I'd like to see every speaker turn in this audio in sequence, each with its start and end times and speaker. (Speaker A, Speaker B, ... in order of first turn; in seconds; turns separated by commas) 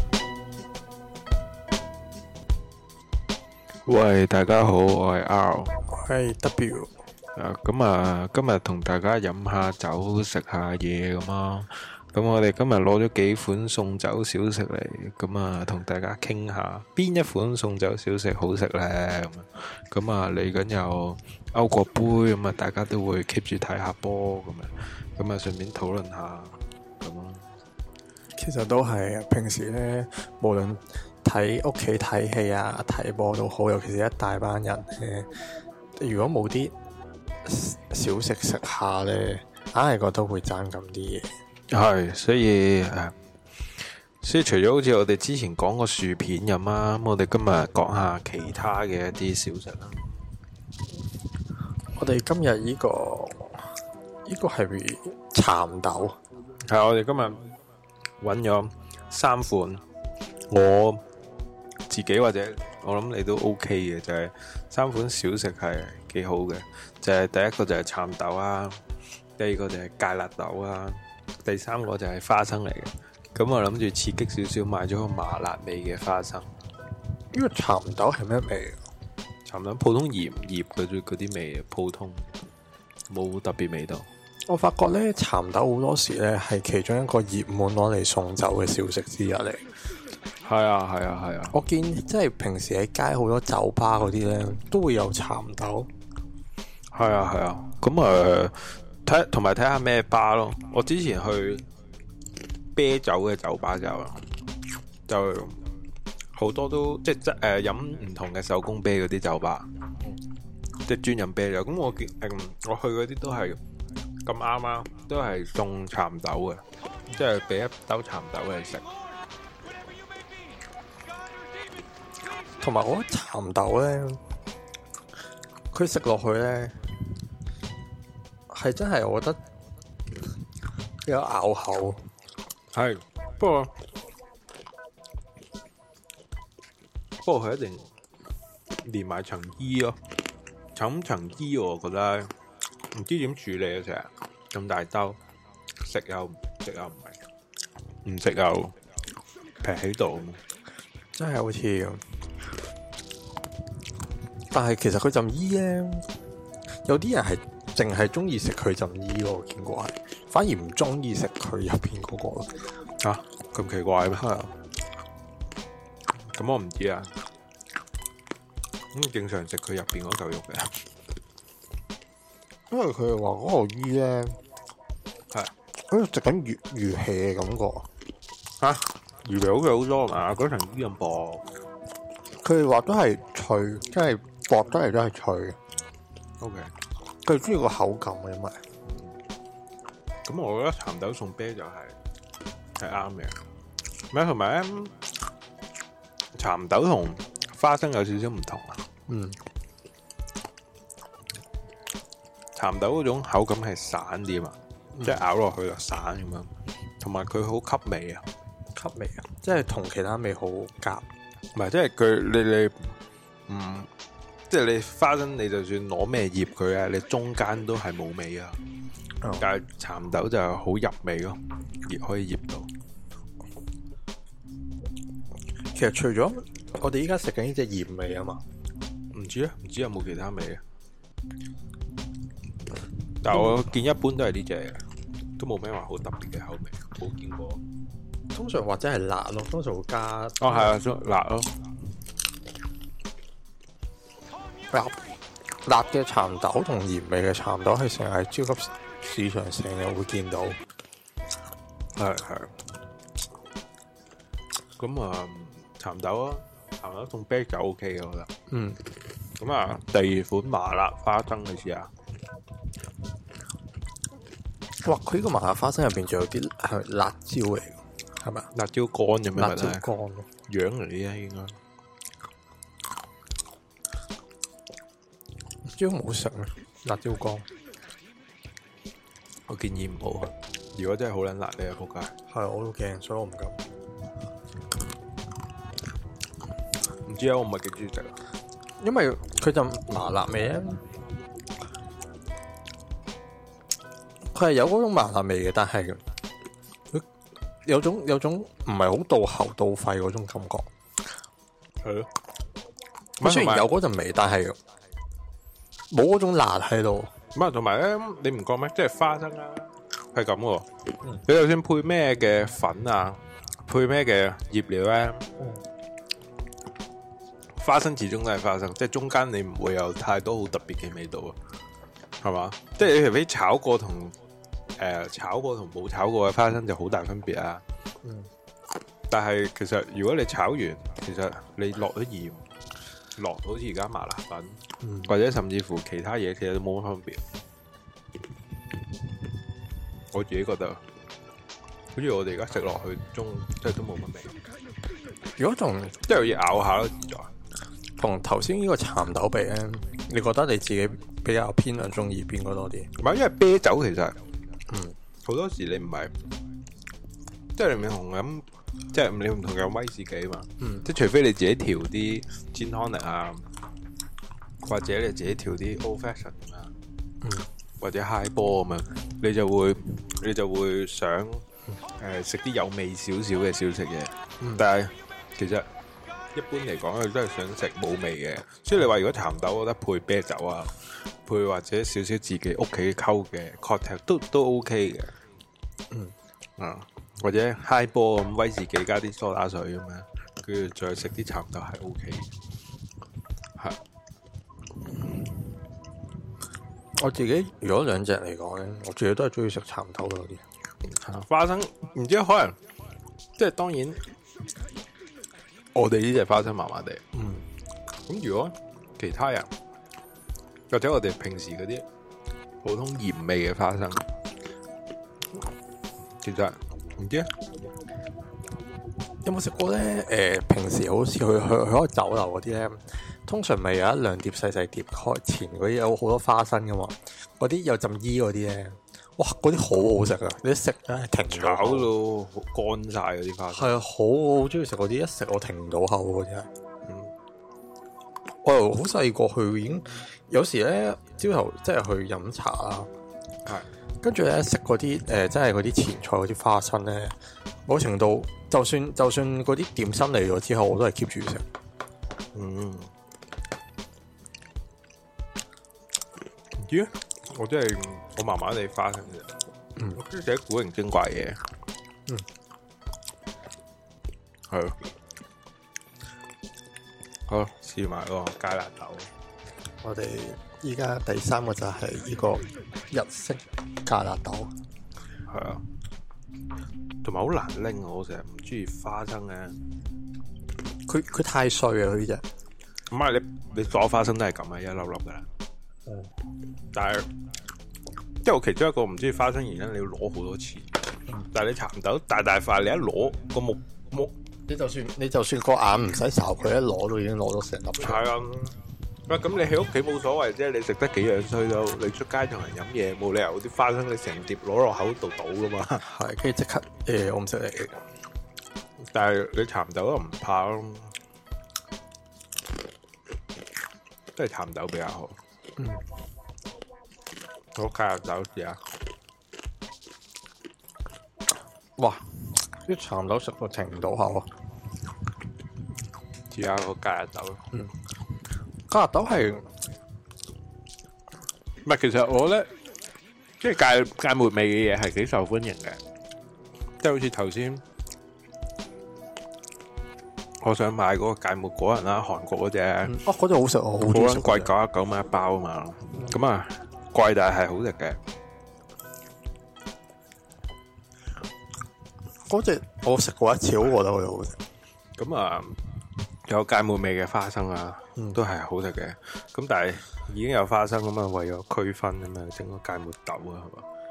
Speaker A: 3.9-5.8, Speaker B: 5.9-6.9, Speaker A: 7.3-27.4, Speaker B: 28.4-36.7, Speaker B: 37.4-41.3, Speaker A: 41.7-43.1, Speaker A: 43.8-50.0, Speaker B: 52.0-56.2, Speaker A: 56.6-57.4, Speaker A: 58.2-59.8, Speaker A: 60.5-61.0, Speaker A: 61.9-68.8, Speaker A: 69.4-76.5, Speaker B: 77.3-78.8, Speaker A: 79.5-82.3, Speaker A: 83.1-84.1, Speaker B: 84.5-89.7, Speaker A: 90.4-91.5, Speaker B: 91.5-95.9, Speaker A: 96.9-101.7, Speaker A: 102.7-104.3, Speaker A: 105.1-105.6, Speaker A: 106.3-109.7, Speaker A: 110.8-113.6, Speaker A: 114.2-118.9, Speaker B: 122.6-124.2, Speaker B: 125.7-126.8, Speaker B: 128.5-129.4, Speaker B: 131.0-132.0, Speaker A: 132.7-133.7, Speaker A: 137.2-137.9, Speaker A: 138.8-140.0, Speaker A: 140.7-142.3, Speaker A: 142.9-145.2, Speaker A: 145.8-147.2, Speaker A: 148.0-148.8, Speaker A: 149.6-150.4, Speaker B: 151.1-152.1, Speaker B: 154.5-156.1, Speaker B: 156.7-162.6, Speaker A: 163.0-164.3, Speaker B: 164.2-164.5, Speaker A: 166.2-167.2, Speaker A: 168.9-170.8, Speaker B: 172.7-174.4, Speaker B: 175.9-177.9, Speaker A: 178.6-181.4, Speaker B: 182.4-185.6, Speaker A: 186.4-186.7, Speaker B: 187.2-188.6, Speaker A: 190.2-191.9, Speaker A: 192.8-193.4, Speaker A: 194.1-195.0, Speaker A: 196.3-198.8, Speaker B: 199.1-199.4, Speaker A: 202.5-208.3, Speaker B: 208.7-211.1, Speaker A: 211.5-213.0, Speaker A: 213.5-213.9, Speaker A: 214.5-218.6, Speaker A: 219.3-222.7, Speaker B: 225.7-228.4, Speaker A: 229.1-230.6, Speaker A: 233.2-234.8, Speaker A: 235.4-237.6, Speaker B: 238.3-240.8, Speaker A: 240.4-241.6, Speaker B: 244.7-245.0, Speaker B: 245.6-250.6, Speaker A: 251.9-252.6, Speaker A: 254.8-258.3, Speaker B: 258.5-258.8, Speaker A: 259.4-261.9, Speaker B: 264.8-268.5, Speaker A: 268.5-269.9, Speaker B: 269.3-270.3, Speaker A: 270.5-271.6, Speaker B: 275.6-277.5, Speaker A: 279.5-282.1, Speaker B: 282.3-283.6, Speaker A: 287.1-288.2, Speaker B: 288.8-290.9, Speaker B: 294.3-296.0, Speaker B: 297.6-300.7, Speaker A: 301.8-302.1, Speaker A: 303.2-303.7, Speaker B: 303.2-304.6, Speaker B: 305.9-307.1, Speaker A: 307.3-315.3, Speaker A: 317.6-321.4, Speaker A: 322.2-324.1, Speaker A: 324.8-327.6, Speaker B: 328.0-328.3, Speaker A: 329.1-332.4, Speaker A: 333.1-337.2, Speaker B: 334.8-335.1, Speaker A: 340.1-340.8, Speaker A: 341.9-344.3, Speaker B: 345.4-346.0, Speaker A: 346.1-347.3, Speaker B: 348.0-352.9, Speaker A: 353.0-354.2, Speaker B: 354.7-355.0, Speaker A: 355.2-356.1, Speaker A: 357.6-363.4, Speaker B: 360.6-360.9, Speaker A: 364.6-366.7, Speaker B: 367.2-367.5, Speaker A: 367.8-375.7, Speaker A: 376.3-385.1, Speaker A: 386.6-392.3, Speaker B: 396.9-400.4, Speaker A: 400.8-402.6, Speaker A: 403.4-404.1, Speaker A: 405.7-407.0, Speaker B: 407.1-407.5, Speaker A: 408.1-409.5, Speaker A: 410.7-411.9, Speaker A: 412.6-414.1, Speaker A: 416.2-417.3, Speaker B: 419.2-431.9, Speaker A: 431.3-433.8, Speaker B: 433.5-436.5, Speaker A: 436.9-437.1, Speaker B: 438.4-442.9, Speaker B: 444.0-451.4, Speaker A: 452.3-452.9, Speaker A: 456.6-459.3, Speaker A: 459.9-461.4, Speaker A: 464.5-464.8, Speaker A: 467.3-469.1, Speaker B: 469.8-474.5, Speaker A: 475.3-475.6, Speaker A: 477.0-479.6, Speaker B: 480.9-482.2, Speaker A: 482.9-485.2, Speaker B: 485.9-486.1, Speaker A: 486.7-487.1, Speaker A: 488.2-494.1, Speaker B: 494.5-498.0, Speaker A: 497.8-505.8, Speaker B: 505.8-507.8, Speaker A: 508.8-510.9, Speaker A: 514.1-515.2, Speaker B: 515.6-515.8, Speaker A: 517.5-518.6, Speaker B: 521.8-524.3, Speaker A: 526.3-527.5, Speaker B: 528.7-529.5, Speaker A: 531.6-532.5, Speaker A: 533.4-535.8, Speaker A: 536.8-537.6, Speaker A: 540.4-543.0, Speaker B: 542.8-544.5, Speaker A: 543.9-548.0, Speaker B: 552.2-554.4, Speaker A: 555.0-555.6, Speaker A: 556.2-563.6